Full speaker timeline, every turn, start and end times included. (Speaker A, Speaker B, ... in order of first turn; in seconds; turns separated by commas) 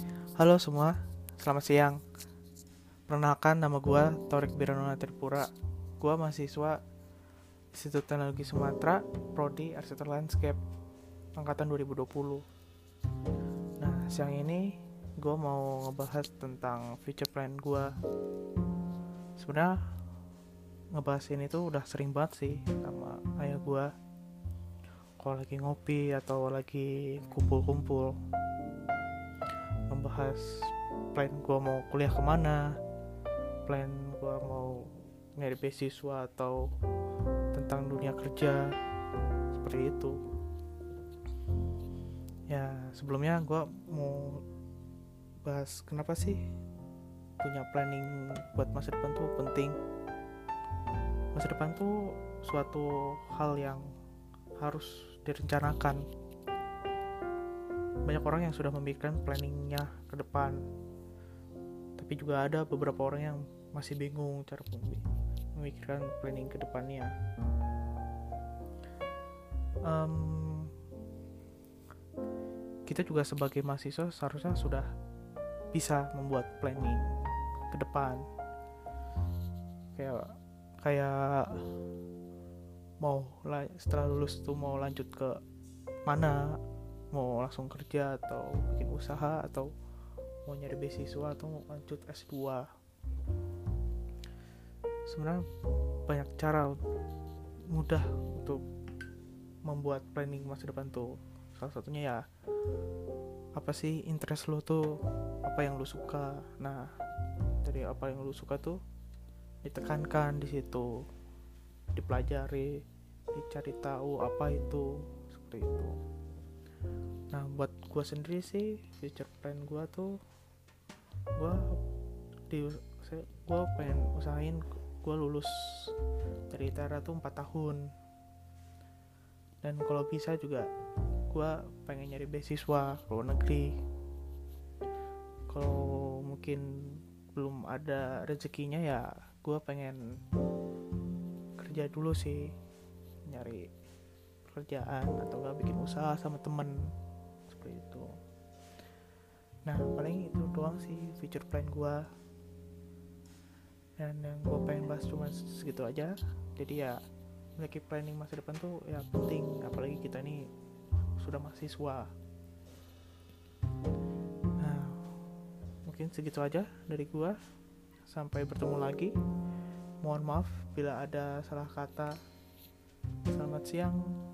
Speaker A: 0.3-2.0, Speaker A: 3.1-6.8, Speaker A: 7.7-10.6, Speaker A: 11.4-12.4, Speaker A: 13.8-17.9, Speaker A: 19.4-19.8, Speaker A: 20.9-23.9, Speaker A: 25.2-28.2, Speaker A: 29.9-30.5, Speaker A: 31.1-32.7, Speaker A: 33.7-36.7, Speaker A: 37.5-38.7, Speaker A: 39.5-40.2, Speaker A: 42.5-44.4, Speaker A: 45.5-46.4, Speaker A: 47.4-49.8, Speaker A: 51.4-53.9, Speaker A: 54.6-56.0, Speaker A: 58.0-60.6, Speaker A: 62.0-67.1, Speaker A: 69.8-70.7, Speaker A: 72.9-74.9, Speaker A: 75.7-77.1, Speaker A: 77.7-78.2, Speaker A: 79.9-81.7, Speaker A: 83.0-85.4, Speaker A: 86.1-86.6, Speaker A: 87.1-89.7, Speaker A: 90.5-92.7, Speaker A: 95.1-95.4, Speaker A: 96.1-96.8, Speaker A: 97.7-98.6, Speaker A: 99.7-102.2, Speaker A: 103.6-106.9, Speaker A: 107.6-108.8, Speaker A: 109.6-111.0, Speaker A: 112.0-112.8, Speaker A: 113.3-116.0, Speaker A: 117.3-120.2, Speaker A: 121.4-121.8, Speaker A: 122.5-125.9, Speaker A: 126.5-127.9, Speaker A: 129.6-130.7, Speaker A: 131.3-133.8, Speaker A: 135.5-140.0, Speaker A: 141.6-142.5, Speaker A: 143.3-143.7, Speaker A: 144.5-146.8, Speaker A: 147.5-148.1, Speaker A: 149.7-152.0, Speaker A: 154.0-157.0, Speaker A: 157.6-160.4, Speaker A: 161.2-162.1, Speaker A: 164.6-165.0, Speaker A: 165.9-167.4, Speaker A: 168.1-169.2, Speaker A: 170.0-172.2, Speaker A: 173.3-174.1